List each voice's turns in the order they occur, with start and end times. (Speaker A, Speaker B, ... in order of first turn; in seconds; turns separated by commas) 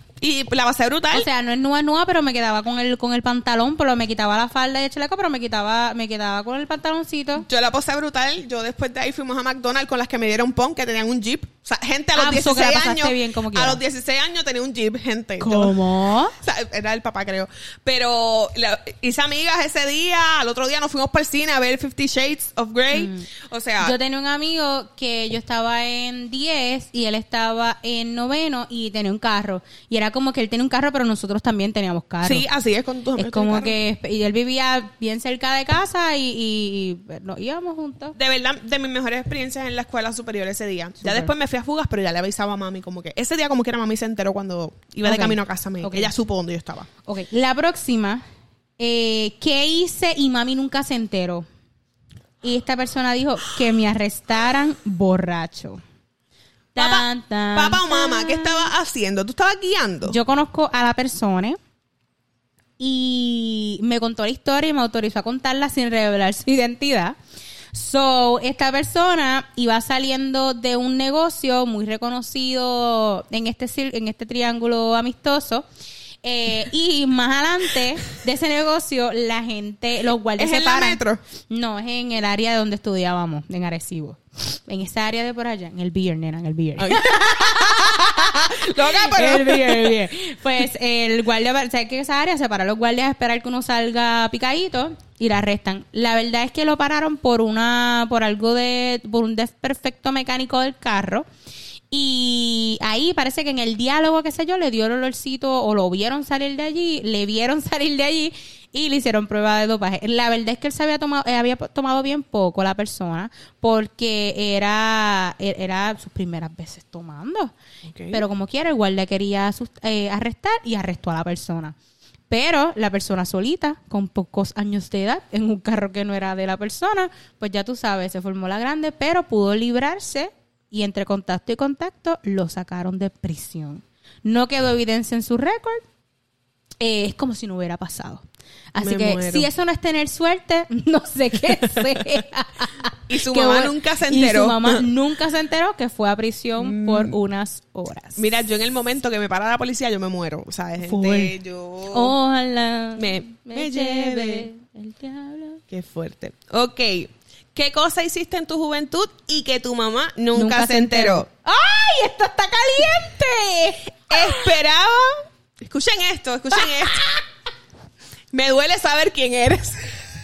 Speaker A: 0.2-1.3, Speaker B: 1.1-7.5, Speaker A: 7.4-23.9, Speaker B: 12.2-13.8, Speaker B: 15.4-16.4, Speaker B: 22.9-23.3, Speaker B: 23.8-32.4, Speaker A: 32.2-33.8, Speaker B: 33.2-38.2, Speaker A: 38.2-46.9, Speaker B: 41.0-41.3, Speaker B: 45.0-46.1, Speaker B: 47.0-48.2, Speaker B: 48.8-51.5, Speaker B: 52.4-55.8, Speaker B: 56.8-58.7, Speaker A: 56.8-60.2, Speaker B: 60.1-61.6, Speaker B: 62.8-67.2, Speaker B: 67.7-75.7, Speaker B: 76.2-101.3, Speaker A: 80.4-81.2, Speaker A: 86.8-90.0, Speaker B: 101.9-117.5, Speaker A: 117.9-118.2, Speaker B: 118.1-121.8, Speaker B: 122.3-135.8, Speaker B: 136.8-148.4, Speaker A: 138.8-139.5, Speaker A: 143.1-144.9, Speaker A: 146.6-147.2, Speaker A: 148.2-152.1, Speaker B: 150.8-151.4, Speaker B: 151.9-155.6, Speaker A: 153.0-154.5, Speaker A: 155.7-161.3, Speaker B: 160.3-164.5, Speaker A: 164.1-167.2, Speaker B: 166.6-167.2, Speaker A: 168.3-170.0